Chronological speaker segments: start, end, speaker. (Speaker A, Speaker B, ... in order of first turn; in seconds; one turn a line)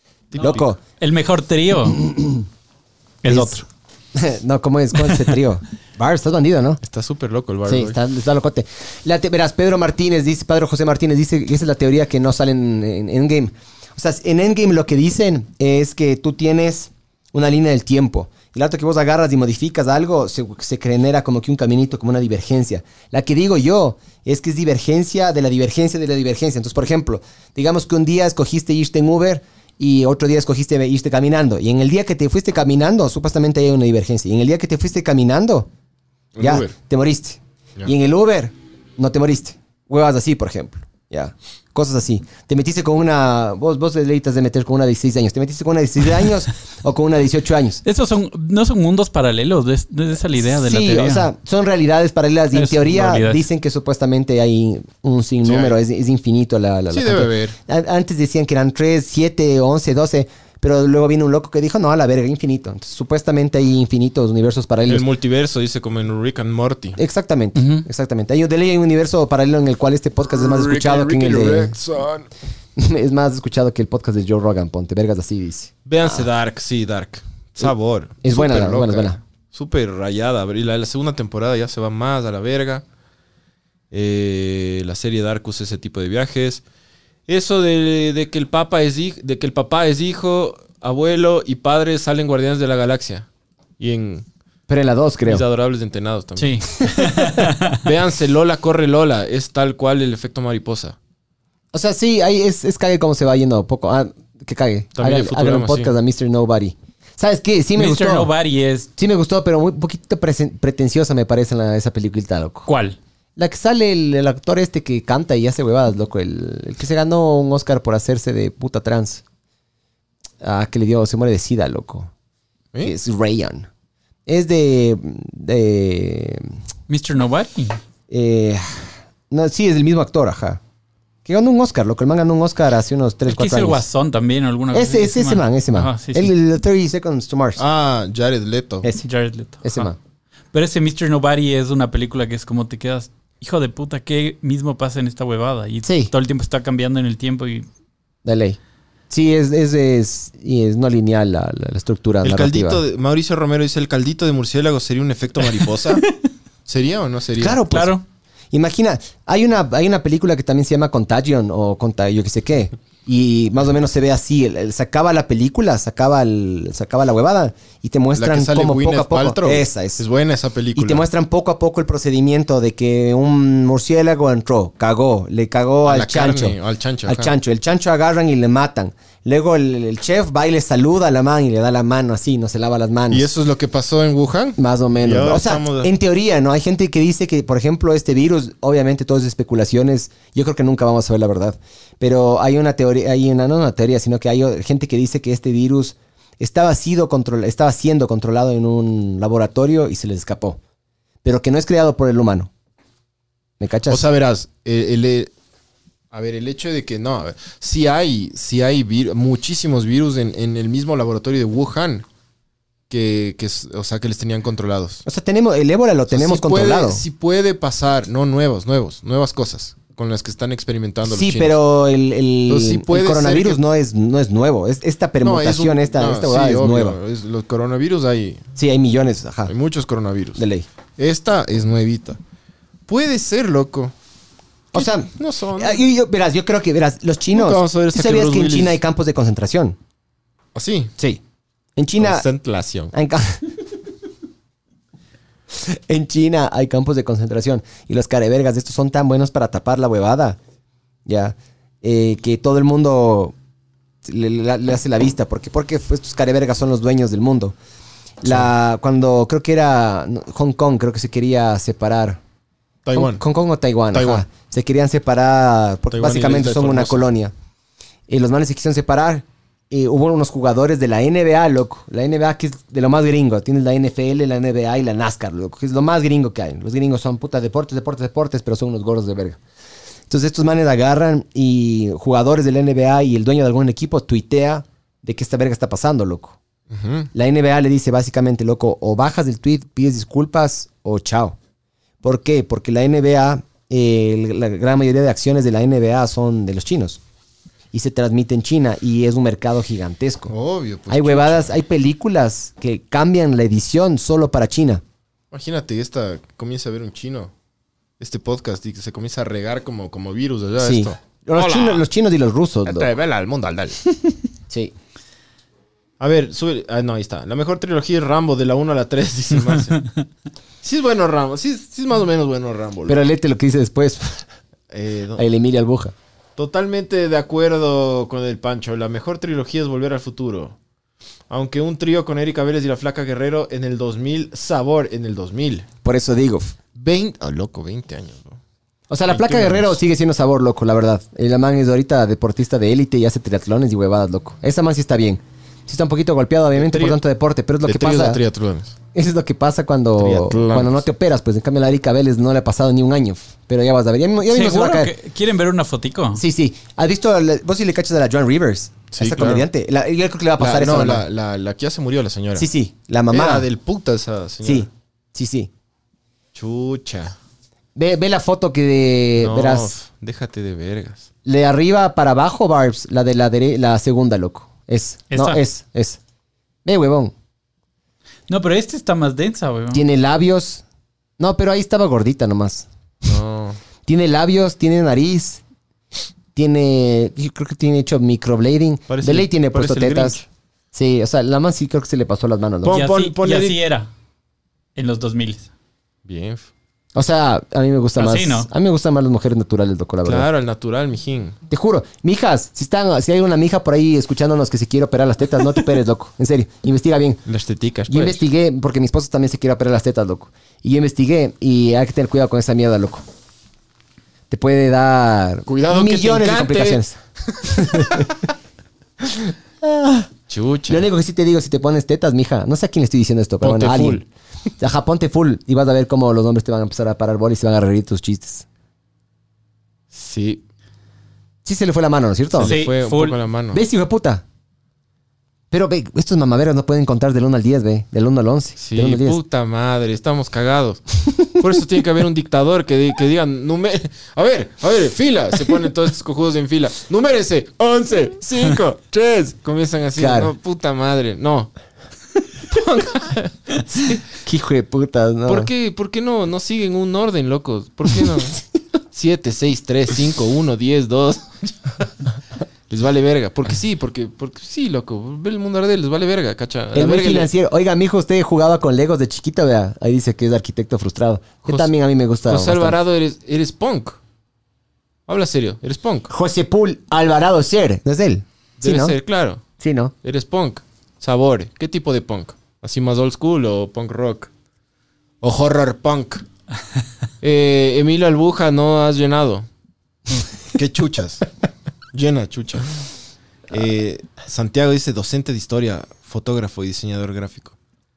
Speaker A: 0.3-0.7
Speaker B: 0.3-0.8
Speaker C: 1.0-2.1
Speaker B: 2.0-2.4
Speaker C: 3.2-3.6
Speaker B: 3.2-3.6
Speaker B: 4.1-6.8
Speaker A: 6.8-8.0
Speaker B: 7.7-35.7
Speaker A: 36.3-36.7
Speaker B: 36.4-47.8
Speaker C: 47.8-51.3
Speaker B: 50.4-65.0
Speaker C: 52.5-53.4
Speaker A: 55.4-55.8
Speaker A: 56.9-57.6
Speaker A: 64.9-67.0
Speaker B: 67.0-71.7
Speaker C: 67.5-67.8
Speaker A: 70.2-72.3
Speaker B: 72.8-76.2
Speaker A: 75.8-82.8
Speaker B: 78.2-79.2
Speaker A: 83.9-86.6
Speaker A: 87.3-93.3
Speaker A: 93.8-94.2
Speaker B: 94.7-95.4
Speaker A: 95.2-96.7
Speaker C: 96.4-97.8
Speaker B: 96.8-97.2
Speaker A: 97.8-101.0
Speaker B: 101.7-108.3
Speaker A: 105.0-105.9
Speaker C: 107.8-108.9
Speaker B: 109.0-112.7
Speaker C: 112.7-113.0
Speaker B: 113.3-119.2
Speaker B: 120.4-122.1
Speaker B: 122.8-123.7
Speaker B: 124.3-126.5
Speaker C: 126.9-127.8
Speaker B: 128.1-130.6
Speaker B: 131.2-133.8
Speaker C: 133.3-136.3
Speaker B: 134.7-137.6
Speaker A: 137.6-138.8
Speaker C: 139.0-139.9
Speaker B: 139.6-140.0
Speaker C: 140.5-147.7
Speaker B: 145.8-146.1
Speaker B: 148.2-148.6
Speaker B: 149.1-152.8
Speaker A: 152.2-156.0
Speaker A: 156.7-157.6
Speaker B: 157.4-158.0
Speaker C: 157.7-158.0
Speaker B: 158.5-170.0
Speaker A: 168.2-171.1
Speaker B: 170.7-183.2
Speaker A: 175.8-177.3
Speaker A: 183.1-185.9
Speaker B: 184.6-200.6
Speaker B: 201.2-202.5
Speaker B: 203.6-204.0
Speaker A: 203.9-205.3
Speaker A: 206.1-212.1
Speaker A: 212.9-215.0
Speaker B: 215.0-217.0
Speaker A: 216.1-221.6
Speaker B: 221.1-227.0
Speaker A: 222.5-223.6
Speaker A: 225.2-228.4
Speaker B: 228.6-229.5
Speaker A: 229.5-230.4
Speaker B: 230.3-230.7
Speaker A: 231.0-232.2
Speaker A: 232.9-233.9
Speaker B: 234.7-239.8
Speaker A: 234.7-235.8
Speaker A: 237.3-238.8
Speaker A: 240.5-240.9
Speaker B: 241.8-242.3
Speaker A: 242.0-242.9
Speaker B: 242.9-243.5
Speaker B: 245.5-250.4
Speaker B: 251.1-253.3
Speaker B: 254.0-257.5
Speaker B: 258.2-262.2
Speaker A: 258.2-258.5
Speaker A: 262.8-263.2
Speaker B: 262.9-267.3
Speaker A: 263.9-264.2
Speaker A: 265.9-267.1
Speaker B: 268.1-279.4
Speaker B: 280.1-286.4
Speaker A: 286.7-287.1
Speaker B: 287.1-291.4
Speaker B: 292.0-297.0
Speaker B: 297.7-300.3
Speaker A: 300.3-301.5
Speaker B: 300.9-304.8
Speaker A: 305.3-307.3
Speaker A: 308.0-311.8
Speaker B: 310.6-312.9
Speaker A: 312.6-313.8
Speaker A: 316.0-319.8
Speaker A: 320.6-323.0
Speaker B: 322.9-324.2
Speaker A: 324.7-325.2
Speaker B: 325.2-325.9
Speaker A: 326.4-330.6
Speaker A: 331.3-335.7
Speaker B: 335.8-336.5
Speaker A: 336.7-338.4
Speaker B: 338.9-348.2
Speaker A: 339.1-339.8
Speaker A: 346.5-347.0
Speaker A: 347.6-348.7
Speaker B: 348.9-354.9
Speaker A: 350.0-350.8
Speaker C: 354.3-356.2
Speaker B: 356.1-361.1
Speaker A: 358.9-359.5
Speaker A: 360.4-362.5
Speaker B: 362.4-363.5
Speaker A: 363.1-364.7
Speaker B: 364.4-365.5
Speaker A: 366.3-367.1
Speaker B: 367.7-369.7
Speaker A: 369.2-371.1
Speaker B: 371.2-376.0
Speaker C: 375.1-375.4
Speaker B: 376.6-377.1
Speaker C: 378.3-379.8
Speaker B: 379.7-380.6
Speaker B: 381.2-382.7
Speaker A: 383.0-383.6
Speaker B: 383.9-385.4
Speaker B: 386.3-390.2
Speaker A: 388.9-390.2
Speaker B: 390.7-392.8
Speaker A: 392.6-393.6
Speaker C: 392.7-393.9
Speaker C: 394.8-395.5
Speaker A: 396.0-396.5
Speaker B: 396.9-400.3
Speaker C: 398.0-398.5
Speaker A: 400.0-401.4
Speaker B: 401.5-407.2
Speaker A: 407.2-408.2
Speaker B: 407.9-413.0
Speaker B: 414.3-418.2
Speaker A: 415.4-418.1
Speaker B: 419.1-420.1
Speaker A: 420.3-420.9
Speaker B: 420.7-424.1
Speaker A: 423.4-424.0
Speaker B: 424.6-428.4
Speaker A: 429.9-430.4
Speaker B: 431.4-432.6
Speaker A: 432.3-433.6
Speaker C: 432.4-433.1
Speaker B: 433.5-434.2
Speaker B: 435.5-439.2
Speaker A: 438.6-451.5
Speaker B: 450.0-450.3
Speaker A: 452.4-454.0
Speaker B: 454.2-455.5
Speaker A: 455.3-458.4
Speaker A: 458.9-461.9
Speaker A: 462.7-467.3
Speaker B: 466.7-472.8
Speaker A: 471.4-471.7
Speaker A: 472.2-474.0
Speaker A: 475.1-476.1
Speaker B: 476.1-478.9
Speaker A: 478.6-479.4
Speaker B: 479.6-479.9
Speaker A: 480.0-484.3
Speaker A: 485.2-486.2
Speaker A: 487.2-489.5
Speaker A: 490.5-491.2
Speaker A: 491.9-492.7
Speaker A: 493.5-497.5